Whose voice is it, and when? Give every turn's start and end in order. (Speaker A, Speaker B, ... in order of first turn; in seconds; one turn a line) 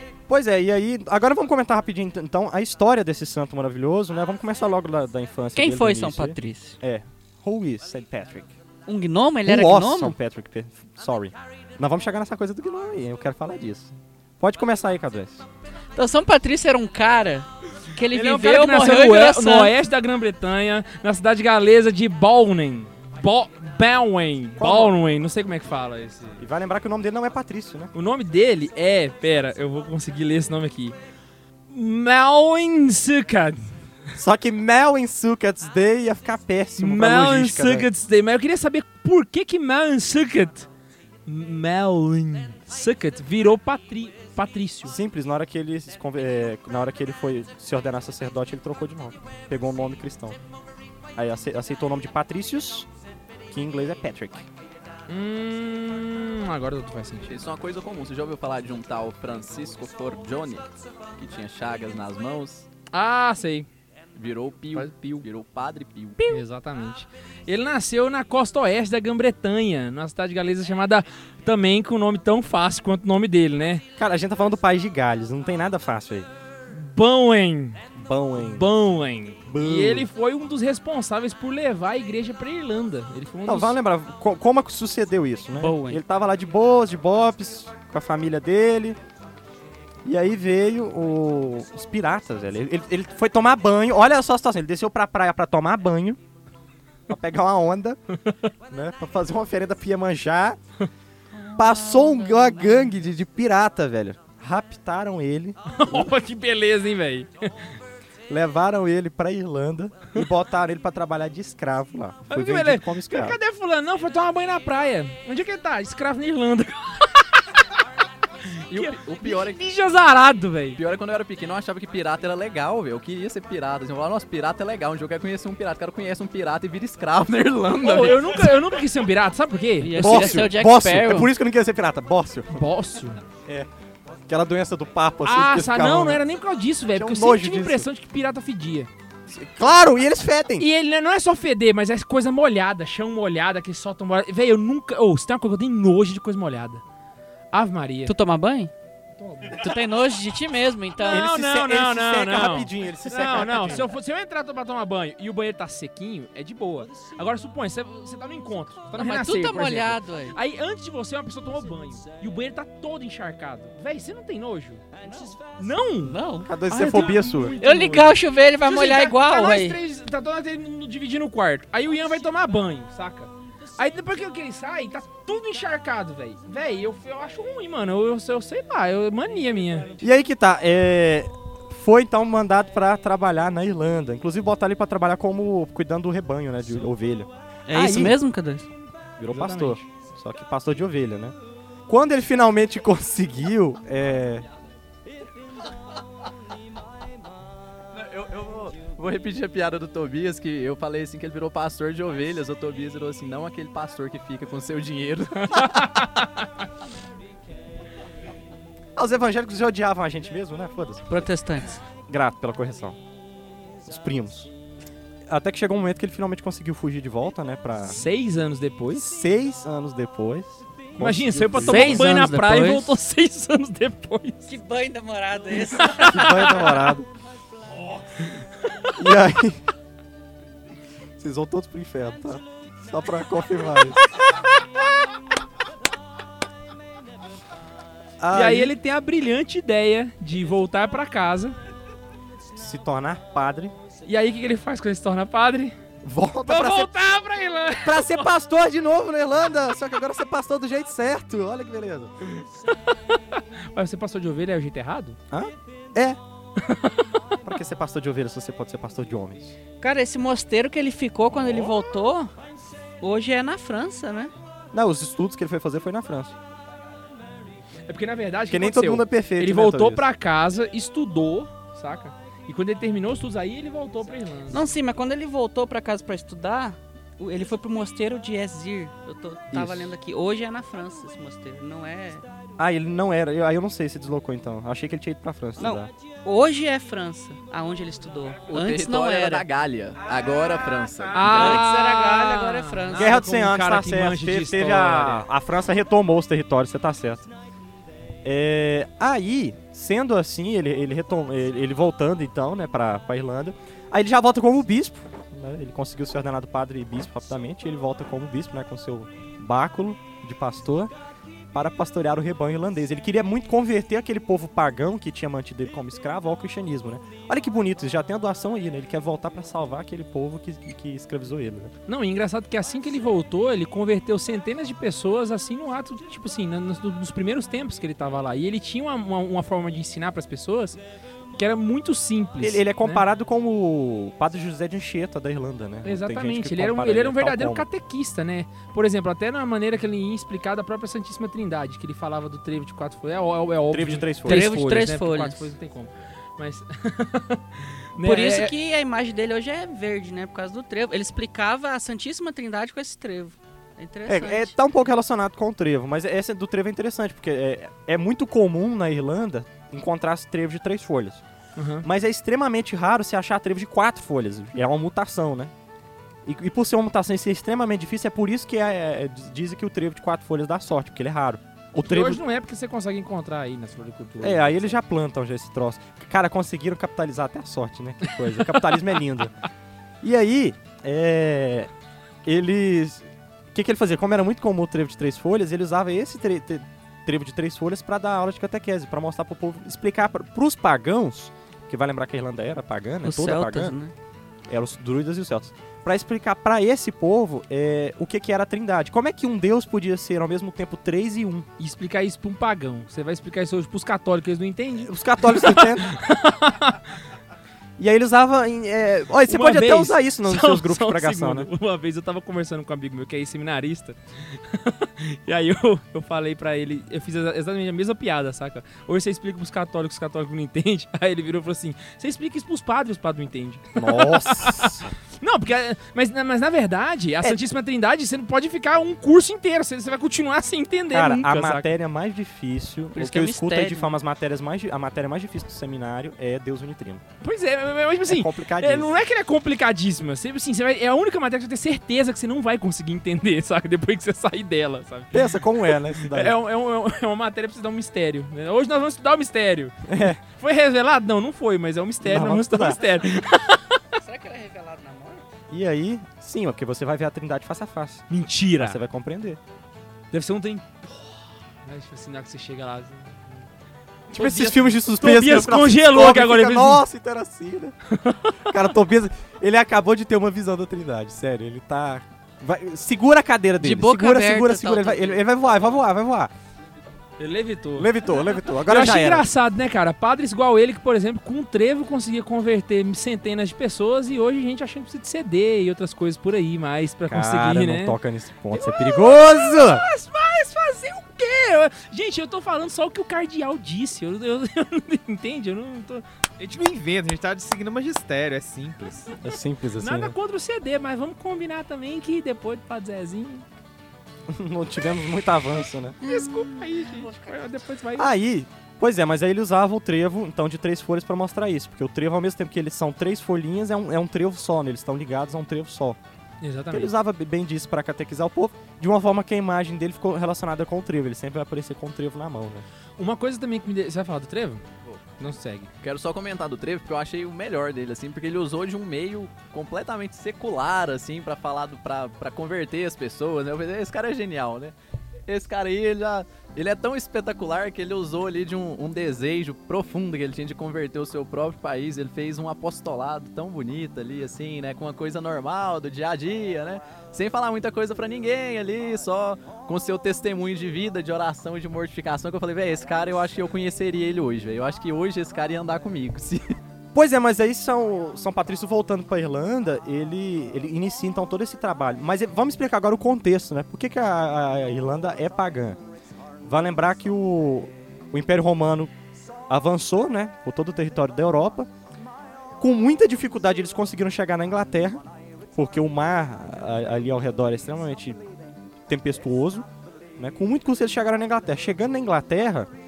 Speaker A: 0.3-8.5
Speaker B: 5.6-6.8
Speaker B: 8.9-10.2
Speaker A: 9.4-15.4
Speaker B: 15.9-19.7
Speaker C: 18.1-26.4
Speaker A: 24.6-25.0
Speaker A: 26.4-27.9
Speaker C: 27.9-31.0
Speaker C: 31.7-33.7
Speaker A: 34.1-37.9
Speaker C: 36.8-40.7
Speaker C: 41.3-45.0
Speaker A: 44.9-50.4
Speaker A: 51.1-52.9
Speaker A: 53.5-54.5
Speaker C: 55.1-57.3
Speaker D: 57.3-62.7
Speaker C: 62.9-63.7
Speaker D: 64.2-66.4
Speaker C: 64.7-65.3
Speaker C: 66.2-73.8
Speaker A: 74.0-76.3
Speaker C: 76.7-77.8
Speaker A: 78.0-78.7
Speaker C: 78.4-83.8
Speaker A: 79.5-80.1
Speaker A: 83.5-89.0
Speaker B: 85.6-86.0
Speaker A: 90.0-96.2
Speaker A: 97.1-98.0
Speaker A: 98.7-100.6
Speaker A: 101.6-106.1
Speaker C: 105.7-107.7
Speaker A: 108.3-113.4
Speaker C: 112.3-117.6
Speaker D: 118.7-119.7
Speaker C: 118.7-120.8
Speaker D: 120.8-128.7
Speaker C: 127.8-130.5
Speaker B: 129.8-131.3
Speaker A: 130.0-132.7
Speaker C: 132.5-133.2
Speaker A: 134.3-136.2
Speaker C: 135.2-138.9
Speaker A: 136.9-137.9
Speaker A: 139.3-140.7
Speaker C: 140.6-146.8
Speaker C: 147.5-148.1
Speaker B: 148.1-148.7
Speaker C: 149.2-149.6
Speaker B: 149.5-151.3
Speaker C: 151.1-166.2
Speaker A: 151.1-153.9
Speaker B: 159.0-160.4
Speaker B: 166.0-169.8
Speaker A: 166.4-167.6
Speaker C: 166.7-179.9
Speaker A: 180.0-188.2
Speaker B: 187.7-188.7
Speaker A: 189.2-191.3
Speaker C: 189.3-189.8
Speaker A: 191.9-194.4
Speaker D: 197.9-206.1
Speaker C: 205.4-206.3
Speaker A: 209.0-211.3
Speaker B: 211.1-211.8
Speaker A: 212.1-213.0
Speaker A: 213.8-214.5
Speaker A: 215.3-218.0
Speaker C: 217.8-219.2
Speaker A: 218.9-222.4
Speaker C: 221.0-224.5
Speaker B: 221.6-222.9
Speaker B: 224.5-226.9
Speaker C: 225.6-226.2
Speaker A: 226.1-227.1
Speaker C: 227.8-229.1
Speaker A: 229.0-229.6
Speaker A: 231.2-234.0
Speaker C: 234.2-234.4
Speaker A: 238.2-238.7
Speaker C: 238.3-241.6
Speaker A: 242.6-243.7
Speaker C: 244.1-245.8
Speaker A: 246.0-246.9
Speaker C: 246.5-248.3
Speaker A: 247.8-252.1
Speaker C: 252.2-255.2
Speaker A: 255.3-256.2
Speaker C: 256.6-257.3
Speaker A: 257.4-259.6
Speaker B: 259.8-262.3
Speaker A: 261.3-261.7
Speaker B: 263.0-264.3
Speaker A: 264.7-266.4
Speaker C: 267.9-274.6
Speaker A: 268.5-270.0
Speaker B: 274.5-282.3
Speaker A: 279.5-279.9
Speaker A: 282.6-285.9
Speaker B: 285.6-289.5
Speaker D: 288.5-291.6
Speaker B: 291.1-293.2
Speaker C: 291.1-295.2
Speaker A: 292.9-297.3
Speaker A: 298.2-310.9
Speaker A: 311.5-321.7
Speaker C: 321.9-330.8
Speaker C: 331.3-333.0
Speaker A: 332.4-337.7
Speaker C: 335.8-348.5
Speaker A: 343.7-344.6
Speaker B: 344.2-345.5
Speaker B: 348.0-354.5
Speaker A: 354.1-361.2
Speaker C: 361.6-361.9
Speaker A: 361.8-365.5
Speaker A: 366.2-372.2
Speaker C: 371.8-374.8
Speaker A: 374.2-379.4
Speaker C: 378.4-378.7
Speaker A: 380.0-381.7
Speaker A: 382.2-393.8
Speaker B: 393.0-393.9
Speaker A: 394.5-401.5
Speaker C: 401.6-406.8
Speaker A: 404.8-405.9
Speaker A: 407.8-411.5
Speaker C: 409.3-431.7
Speaker A: 423.8-424.9
Speaker A: 430.9-437.0
Speaker B: 432.9-433.9
Speaker C: 437.2-453.6
Speaker A: 438.1-438.9
Speaker A: 445.1-446.4
Speaker A: 449.9-450.2
Speaker A: 452.0-452.8
Speaker B: 454.0-455.2
Speaker A: 455.5-459.4
Speaker C: 458.1-458.8
Speaker C: 460.1-463.5
Speaker C: 464.1-466.8
Speaker A: 464.1-467.8
Speaker C: 467.9-468.6
Speaker A: 468.4-476.3
Speaker B: 473.6-475.2
Speaker C: 477.2-477.9
Speaker A: 477.8-479.3
Speaker C: 478.6-488.0
Speaker A: 487.1-489.8
Speaker C: 488.5-496.0
Speaker E: 496.4-499.1
Speaker A: 499.2-500.1
Speaker C: 499.8-503.4
Speaker A: 504.3-506.0
Speaker C: 506.0-508.1
Speaker A: 508.0-516.0
Speaker C: 516.4-516.9
Speaker A: 516.7-522.6
Speaker C: 523.0-525.7
Speaker D: 525.8-534.8
Speaker D: 535.3-556.5
Speaker A: 557.0-565.8
Speaker A: 566.4-568.9
Speaker A: 569.5-571.7
Speaker A: 572.6-575.0
Speaker A: 575.5-578.2
Speaker A: 578.9-579.7
Speaker A: 580.2-582.7